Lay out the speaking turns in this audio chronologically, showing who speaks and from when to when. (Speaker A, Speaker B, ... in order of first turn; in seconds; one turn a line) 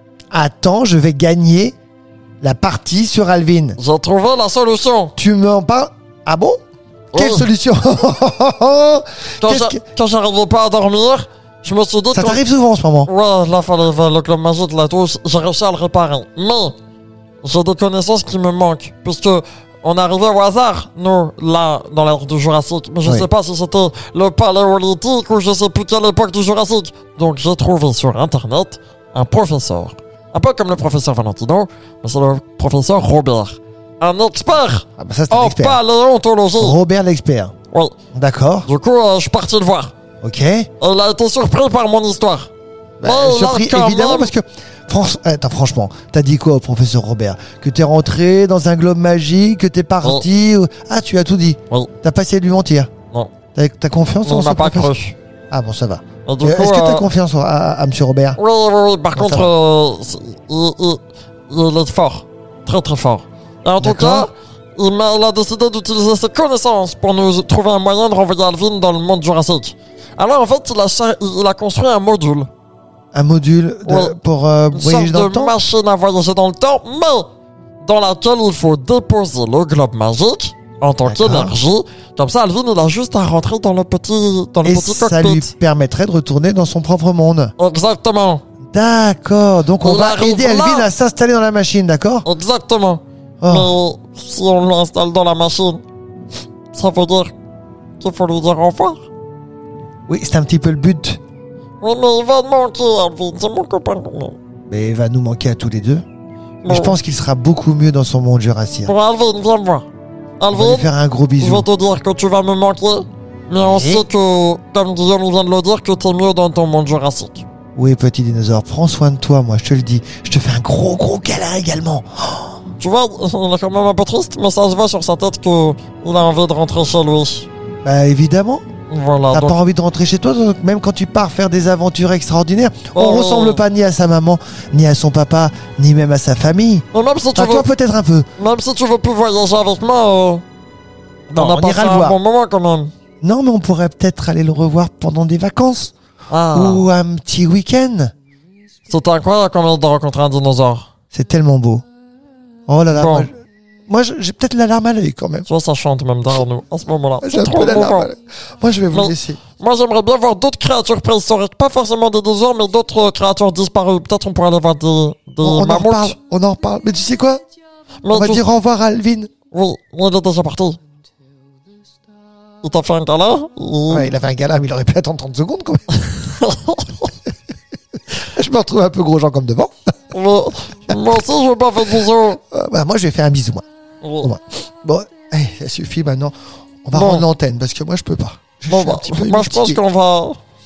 Speaker A: 0.3-1.8
Speaker A: 2.4-3.8
Speaker B: 3.8-5.1
Speaker A: 5.2-6.6
Speaker B: 7.1-7.5
Speaker A: 7.1-9.8
Speaker B: 9.4-12.4
Speaker A: 12.1-13.1
Speaker B: 13.1-16.7
Speaker B: 17.4-36.8
Speaker A: 35.0-35.8
Speaker A: 36.6-37.5
Speaker A: 38.1-38.7
Speaker B: 38.6-39.9
Speaker A: 40.2-40.7
Speaker B: 40.8-42.5
Speaker A: 43.0-52.9
Speaker B: 43.0-44.3
Speaker A: 53.5-54.9
Speaker B: 54.2-55.1
Speaker A: 55.5-58.4
Speaker B: 56.2-57.0
Speaker B: 58.4-72.5
Speaker A: 59.1-59.5
Speaker A: 63.8-64.3
Speaker A: 73.1-75.5
Speaker B: 73.8-74.2
Speaker B: 74.7-77.3
Speaker B: 77.8-85.5
Speaker A: 81.0-81.6
Speaker A: 84.6-87.5
Speaker B: 87.6-88.4
Speaker A: 88.7-92.2
Speaker B: 89.8-90.9
Speaker B: 92.2-95.8
Speaker A: 93.4-93.7
Speaker B: 96.7-97.3
Speaker B: 98.0-99.0
Speaker A: 100.1-101.2
Speaker B: 101.8-104.4
Speaker A: 104.7-106.0
Speaker B: 106.6-107.0
Speaker A: 106.7-108.9
Speaker B: 108.8-109.9
Speaker B: 110.4-110.9
Speaker A: 110.5-111.7
Speaker B: 111.4-117.4
Speaker A: 113.6-114.0
Speaker A: 117.8-122.6
Speaker B: 122.8-127.5
Speaker A: 127.8-128.6
Speaker B: 128.9-129.5
Speaker A: 129.3-138.3
Speaker B: 132.9-133.6
Speaker B: 136.9-137.7
Speaker B: 138.4-140.4
Speaker B: 141.3-142.9
Speaker A: 141.3-142.2
Speaker A: 143.2-145.9
Speaker B: 146.3-146.9
Speaker A: 146.5-148.1
Speaker B: 148.9-150.9
Speaker A: 151.1-151.8
Speaker A: 152.7-153.3
Speaker B: 152.9-153.3
Speaker A: 153.9-155.5
Speaker B: 155.5-158.1
Speaker A: 157.2-159.4
Speaker B: 158.9-166.1
Speaker A: 165.4-167.4
Speaker B: 168.0-168.4
Speaker A: 168.1-169.3
Speaker B: 169.5-170.8
Speaker B: 172.6-174.1
Speaker A: 173.9-176.0
Speaker B: 176.0-177.1
Speaker A: 178.1-179.7
Speaker B: 180.1-182.4
Speaker A: 182.5-183.6
Speaker B: 184.0-184.3
Speaker A: 184.2-189.8
Speaker B: 186.9-187.3
Speaker B: 188.7-190.4